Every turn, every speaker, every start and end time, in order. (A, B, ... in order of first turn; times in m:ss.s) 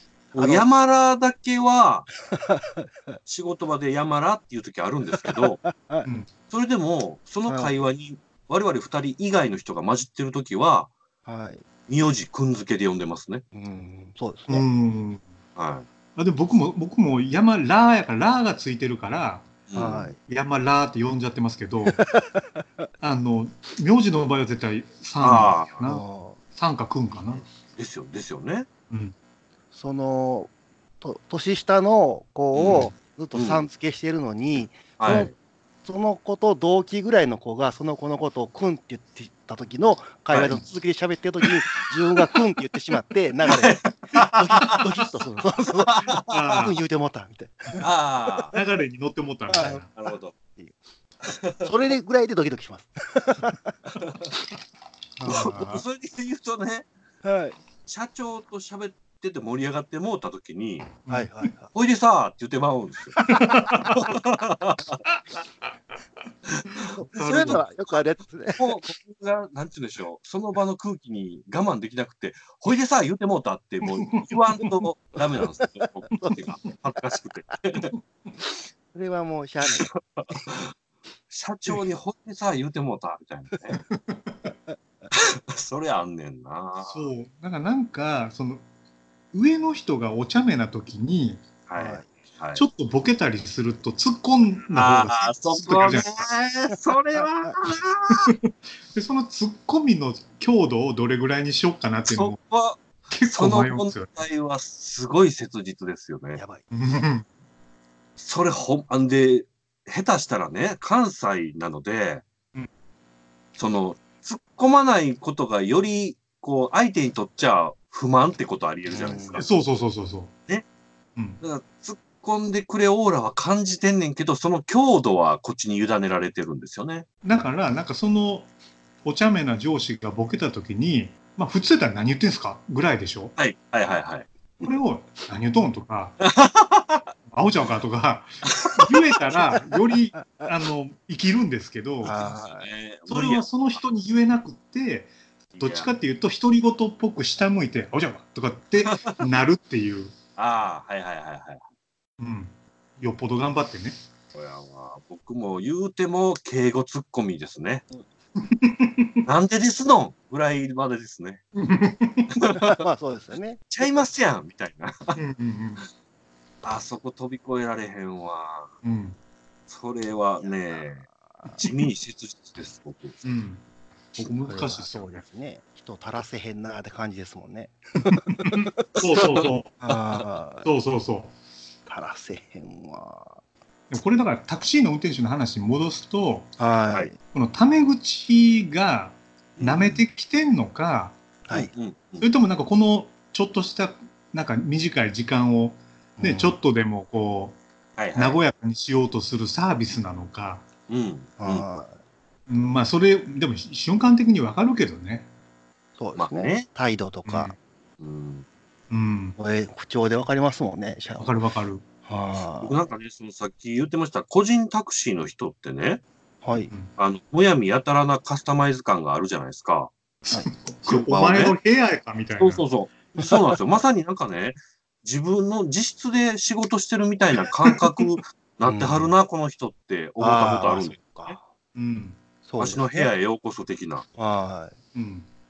0:00.3-0:00.6 A
0:00.3-0:02.1 B
0:02.3-0:03.2 A
0:03.2-0:05.6 B
0:05.2-0:06.1 A
0:06.0-0:06.3 C
0:06.5-0:10.9 B
0:07.5-0:07.7 A
0:11.2-0:11.6 A
0:11.9-0:13.4 B
0:13.5-0:14.6 A
0:14.5-0:15.2 C
0:15.6-0:15.9 B
0:16.2-0:19.5 C
0:19.7-0:20.1 B
0:19.7-0:20.2 A
0:20.2-0:22.0 C
0:22.0-0:22.6 A
0:23.0-0:27.4 C
0:25.2-0:25.8 B
0:25.8-0:26.4 A
0:27.1-0:27.6 A
0:27.8-0:28.7 B
0:29.7-0:35.3 A
0:32.5-0:33.6 B
0:35.0-0:35.3 B
0:35.8-0:47.8 A
0:40.3-0:40.6 B
0:43.5-0:44.8 B
0:45.8-0:46.5 B
0:46.3-0:46.8 C
0:47.8-0:48.5 B
0:48.5-0:49.9 C
0:49.5-0:49.8 A
0:49.9-0:50.3 B
0:51.2-0:51.7 B
0:51.6-0:54.0 A
0:55.2-0:55.5 A
0:55.2-0:55.8 C
0:55.3-0:56.9 B
0:57.2-0:57.6 A
0:57.8-1:00.9 B
1:01.0-1:01.3 C
1:01.1-1:01.7 A
1:01.7-1:03.2 B
1:03.2-1:04.0 C
1:03.5-1:03.9 A
1:03.8-1:05.0 B
1:06.5-1:07.6 B
1:07.0-1:08.8 A
1:07.1-1:07.6 C
1:08.5-1:17.9 B
1:14.1-1:14.7 C
1:15.8-1:16.4 A
1:18.9-1:19.9 A
1:19.8-1:20.6 B
1:21.3-1:23.8 B
1:23.9-1:24.3 C
1:25.1-1:27.1 B
1:26.8-1:28.6 C
1:29.3-1:31.4 C
1:31.7-1:32.6 B
1:31.7-1:32.1 A
1:32.6-1:36.3 C
1:34.7-1:38.3 B
1:38.9-1:42.4 C
1:42.0-1:46.4 B
1:43.1-1:44.1 C
1:46.3-1:46.6 A
1:46.7-1:47.2 C
1:48.2-1:52.2 B
1:53.6-1:59.4 B
1:58.9-1:59.5 A
1:59.4-2:00.3 C
2:01.4-2:07.1 B
2:07.2-2:08.5 C
2:09.0-2:13.3 C
2:13.4-2:14.3 B
2:14.6-2:16.2 C
2:16.2-2:17.0 B
2:17.3-2:22.1 C
2:20.2-2:20.5 A
2:22.0-2:22.7 A
2:22.0-2:23.4 B
2:23.1-2:30.1 C
2:25.5-2:25.9 B
2:28.8-2:29.2 B
2:30.4-2:31.6 B
2:32.2-2:34.0 C
2:34.3-2:38.0 B
2:38.4-2:39.2 C
2:39.2-2:41.4 B
2:41.5-2:42.3 C
2:42.4-2:42.7 B
2:42.5-2:43.9 A
2:43.7-2:45.2 B
2:45.1-2:45.8 C
2:46.6-2:48.7 B
2:48.8-2:49.2 C
2:49.7-2:51.0 B
2:50.4-2:51.6 A
2:51.6-2:53.2 B
2:53.2-2:53.6 C
2:54.2-2:55.2 C
2:54.2-3:00.7 A
2:58.1-2:59.8 C
2:59.2-2:59.5 B
3:00.6-3:01.3 C
3:01.8-3:03.4 A
3:03.9-3:06.5 C
3:06.6-3:07.2 A
3:07.2-3:11.2 C
3:09.6-3:10.0 B
3:11.5-3:12.3 B
3:12.2-3:17.6 C
3:16.2-3:16.6 A
3:18.0-3:18.4 B
3:18.1-3:20.6 C
3:20.9-3:21.8 B
3:21.4-3:22.0 A
3:22.5-3:25.3 C
3:26.0-3:27.5 A
3:26.2-3:26.7 B
3:27.2-3:27.6 C
3:28.0-3:28.4 B
3:28.9-3:29.4 C
3:29.4-3:31.3 A
3:31.2-3:31.8 C
3:32.0-3:32.8 A
3:32.6-3:36.0 B
3:36.4-3:36.7 A
3:37.0-3:39.9 B
3:40.2-3:42.6 C
3:40.8-3:41.6 B
3:42.4-3:51.4 B
3:48.6-3:49.1 A
3:50.2-3:51.4 A
3:51.7-3:52.2 C
3:52.4-3:53.1 A
3:52.6-3:54.0 B
3:54.2-3:54.8 A
3:54.9-3:55.2 C